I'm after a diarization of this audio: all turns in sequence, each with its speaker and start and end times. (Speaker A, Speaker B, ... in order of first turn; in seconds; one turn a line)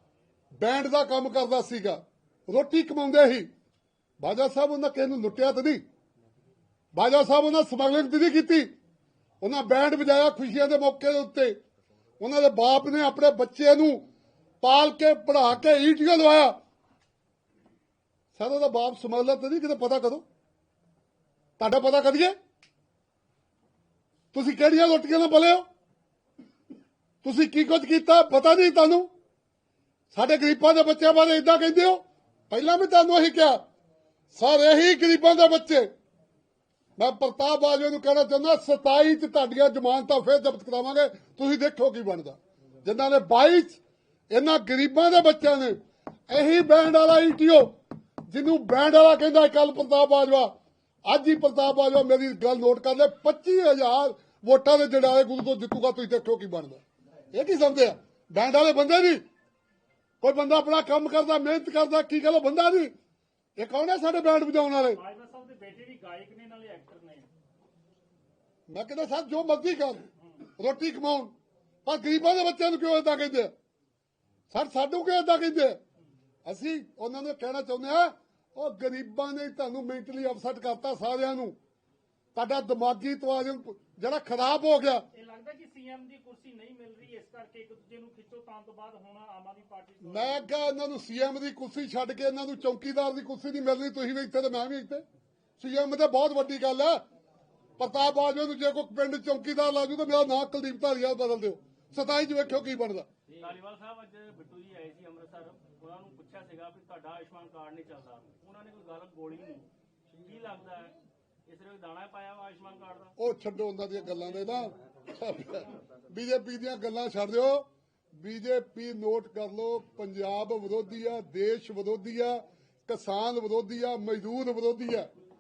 Speaker A: 0.6-3.5
Speaker A: 4.2-5.8
Speaker A: 6.9-8.7
Speaker A: 9.4-11.6
Speaker A: 12.2-14.0
Speaker A: 14.6-16.6
Speaker A: 18.3-20.2
Speaker A: 21.6-22.4
Speaker A: 24.3-25.6
Speaker A: 27.2-29.1
Speaker A: 30.1-33.6
Speaker A: 34.3-35.9
Speaker A: 37.0-43.8
Speaker A: 44.3-45.8
Speaker A: 46.3-47.7
Speaker A: 48.3-50.5
Speaker A: 51.1-56.8
Speaker A: 57.3-59.2
Speaker A: 60.2-62.9
Speaker A: 63.6-65.0
Speaker B: 64.9-67.3
Speaker A: 68.7-71.3
Speaker B: 70.2-70.5
Speaker A: 71.8-73.5
Speaker A: 74.5-75.8
Speaker A: 76.5-81.5
Speaker A: 82.3-85.0
Speaker B: 85.1-90.6
Speaker A: 90.0-95.0
Speaker A: 95.6-97.0
Speaker A: 97.8-103.1
Speaker C: 103.3-109.7
Speaker C: 110.2-113.2
Speaker A: 113.2-125.1